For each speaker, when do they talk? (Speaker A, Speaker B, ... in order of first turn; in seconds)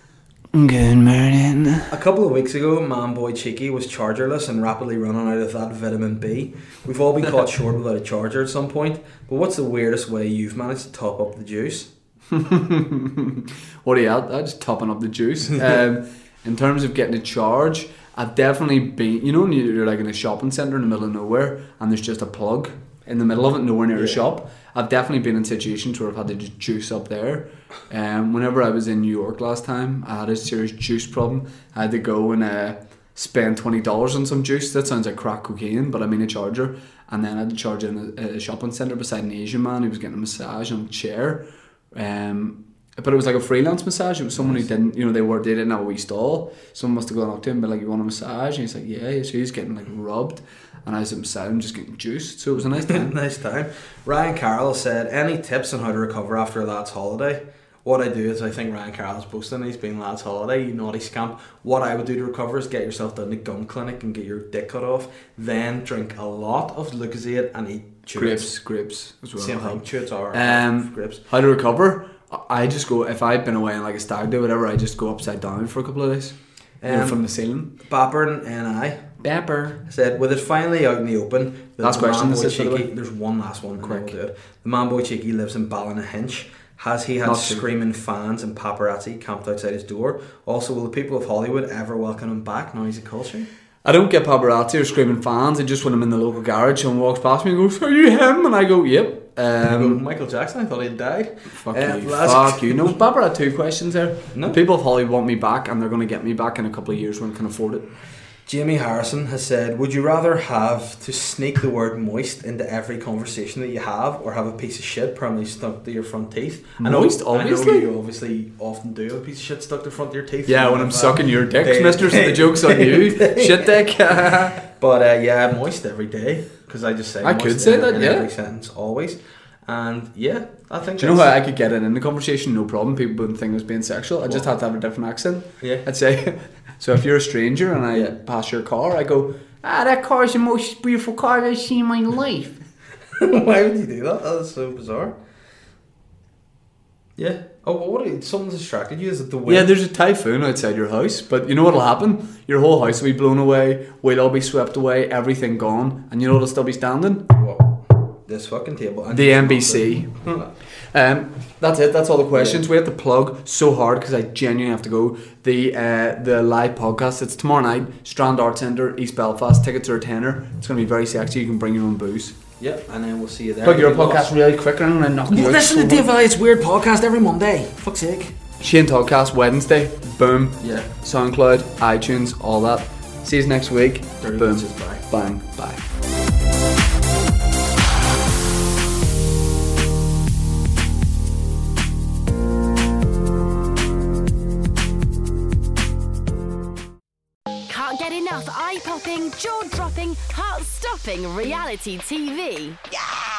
Speaker A: 0.5-1.9, 12.3-53.1, 68.1-69.8, 70.3-77.7, 79.2-79.8, 81.8-82.9, 83.8-84.1, 87.2-87.6, 93.8-100.0, 101.6-107.9, 116.8-117.9, 120.5-124.6, 127.2-128.3, 131.0-142.6, 149.5-157.2, 159.1-160.4, 160.9-172.3, 173.6-176.1, 178.6-185.8
Speaker B: 1.9-11.9, 23.9-24.2, 44.4-44.6, 52.7-68.6, 69.3-71.2, 76.8-77.2, 77.8-79.0, 79.8-93.5, 99.6-103.0, 104.3-104.6, 108.5-131.3, 134.2-134.5, 135.6-135.8, 143.2-145.1, 147.2-149.7, 157.3-160.5, 162.3-162.6, 172.6-174.3, 175.3-178.3, 180.6-180.9, 184.2-185.1
Speaker C: 197.7-202.8